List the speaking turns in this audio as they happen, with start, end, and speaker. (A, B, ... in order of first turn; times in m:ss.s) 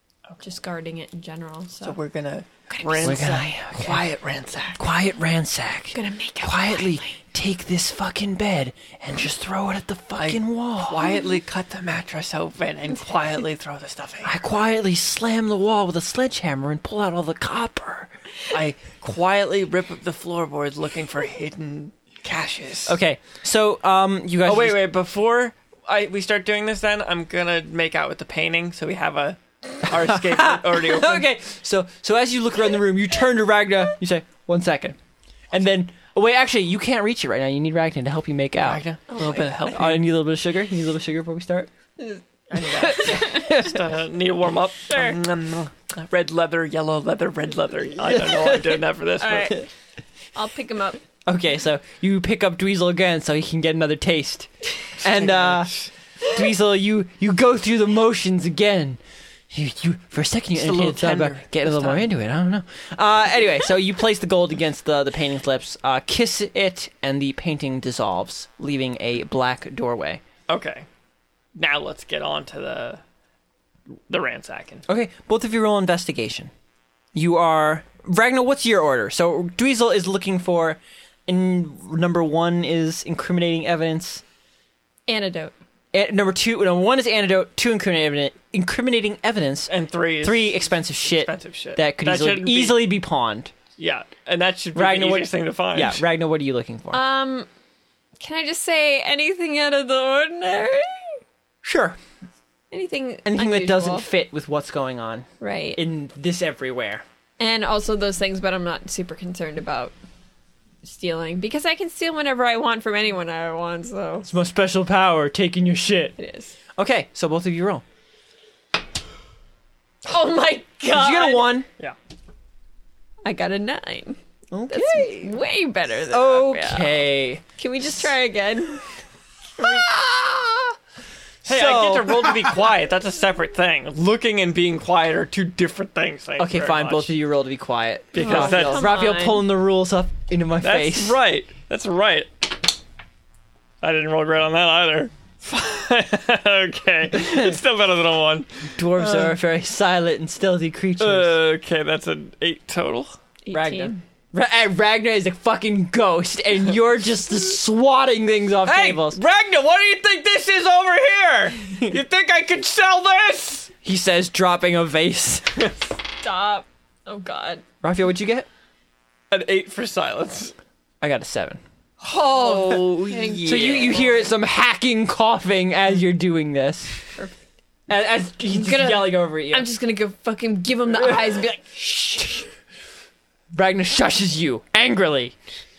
0:00.4-0:02.0 A
0:01.8-0:04.8 B
0:02.7-0:03.3 A
0:03.0-0:04.0 C
0:04.8-0:11.0 C
0:05.9-0:07.1 A
0:10.1-0:14.3 B
0:14.2-0:18.1 C
0:18.5-0:23.0 B
0:22.9-0:24.8 C
0:24.4-0:31.3 B
0:30.0-0:35.0 C
0:35.5-0:38.8 C
0:38.6-0:40.1 B
0:39.1-0:39.9 A
0:39.7-0:41.7 C
0:42.0-0:43.6 A
0:42.5-0:49.5 B
0:42.8-0:43.8 C
0:44.9-0:45.2 A
0:48.0-0:48.8 C
0:49.2-0:49.7 A
0:50.3-0:51.0 A
0:51.3-0:55.7 C
0:55.0-0:55.9 B
0:56.3-0:59.0 C
0:59.5-1:10.2 C
1:00.6-1:02.0 B
1:10.5-1:10.9 B
1:11.6-1:13.0 B
1:14.1-1:14.8 B
1:14.9-1:16.5 C
1:17.1-1:24.2 C
1:25.1-1:25.5 A
1:25.9-1:29.7 C
1:29.7-1:32.8 B
1:30.2-1:33.5 C
1:33.8-1:36.0 B
1:34.8-1:37.0 C
1:36.9-1:37.5 A
1:38.2-1:41.0 A
1:41.6-1:42.0 C
1:42.7-1:44.1 A
1:43.3-1:47.0 C
1:45.4-1:45.8 A
1:47.4-1:50.0 A
1:50.8-1:54.3 A
1:54.3-1:56.2 C
1:56.2-1:56.6 A
1:56.8-1:57.8 C
2:00.0-2:01.5 A
2:00.9-2:01.7 C
2:03.2-2:04.2 A
2:04.5-2:05.4 C
2:04.7-2:07.0 A
2:06.1-2:07.4 C
2:07.6-2:08.8 A
2:09.6-2:10.5 A
2:11.4-2:12.3 C
2:11.4-2:17.1 B
2:16.4-2:21.2 C
2:18.1-2:18.9 B
2:18.2-2:19.4 A
2:20.6-2:22.7 B
2:23.8-2:29.3 B
2:27.2-2:27.5 C
2:28.8-2:31.4 C
2:31.0-2:33.1 B
2:33.5-2:34.0 A
2:33.5-2:39.2 C
2:38.7-2:43.7 B
2:43.8-2:45.7 C
2:46.2-2:47.6 A
2:47.8-2:48.5 C
2:49.3-2:50.6 B
2:51.0-2:51.6 C
2:52.0-2:54.3 A
2:52.1-2:54.1 B
2:53.4-2:57.0 C
2:57.9-2:59.7 C
2:58.5-3:02.4 A
3:00.9-3:01.4 C
3:03.5-3:05.4 C